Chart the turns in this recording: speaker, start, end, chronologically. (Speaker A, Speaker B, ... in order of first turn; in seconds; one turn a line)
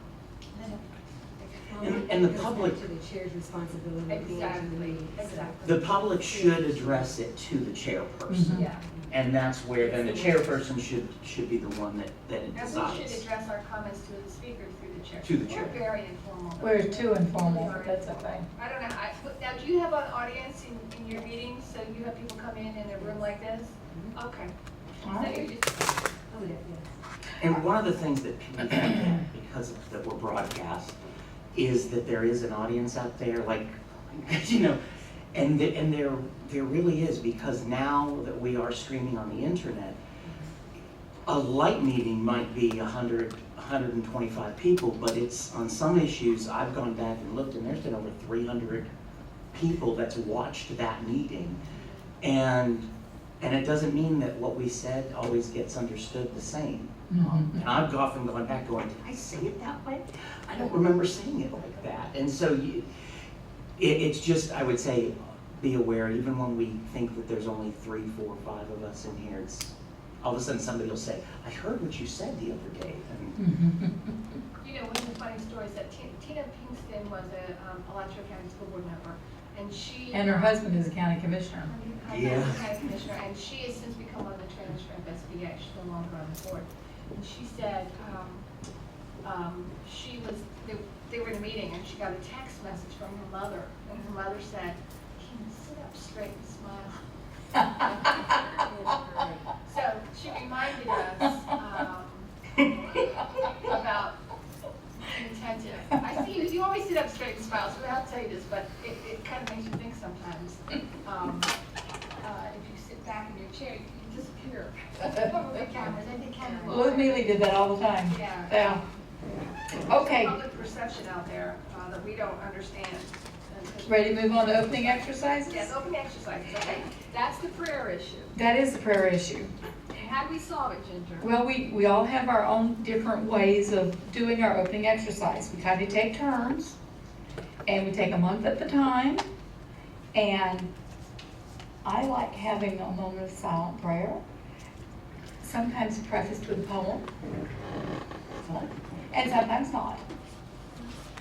Speaker A: 0.5-0.9
Speaker B: 1.4-7.1
Speaker C: 1.8-2.8
Speaker A: 4.1-5.7
Speaker C: 5.6-13.2
Speaker D: 8.3-8.6
Speaker A: 8.5-8.8
Speaker B: 9.8-10.5
Speaker A: 12.5-24.5
Speaker C: 15.2-15.8
Speaker D: 16.6-18.4
Speaker D: 25.0-25.4
Speaker A: 25.0-26.0
Speaker B: 26.3-27.0
Speaker C: 27.4-31.0
Speaker C: 31.5-34.8
Speaker C: 35.3-40.0
Speaker B: 40.2-40.5
Speaker C: 41.2-48.9
Speaker C: 49.5-51.6
Speaker C: 52.2-52.9
Speaker C: 53.4-62.9
Speaker D: 57.1-57.6
Speaker C: 63.8-73.4
Speaker D: 73.4-74.1
Speaker A: 74.6-80.6
Speaker D: 80.1-81.7
Speaker A: 81.6-88.5
Speaker C: 82.1-82.6
Speaker A: 89.2-97.0
Speaker A: 97.7-98.4
Speaker A: 99.5-104.2
Speaker A: 105.0-111.5
Speaker A: 112.2-117.3
Speaker D: 116.7-118.8
Speaker A: 118.1-128.3
Speaker D: 119.9-120.4
Speaker D: 123.8-125.7
Speaker D: 128.3-129.5
Speaker A: 129.9-131.3
Speaker D: 131.2-136.8
Speaker D: 137.7-139.2
Speaker D: 140.1-140.7
Speaker D: 141.8-144.2
Speaker D: 145.4-147.1
Speaker C: 148.4-149.2
Speaker D: 149.1-150.0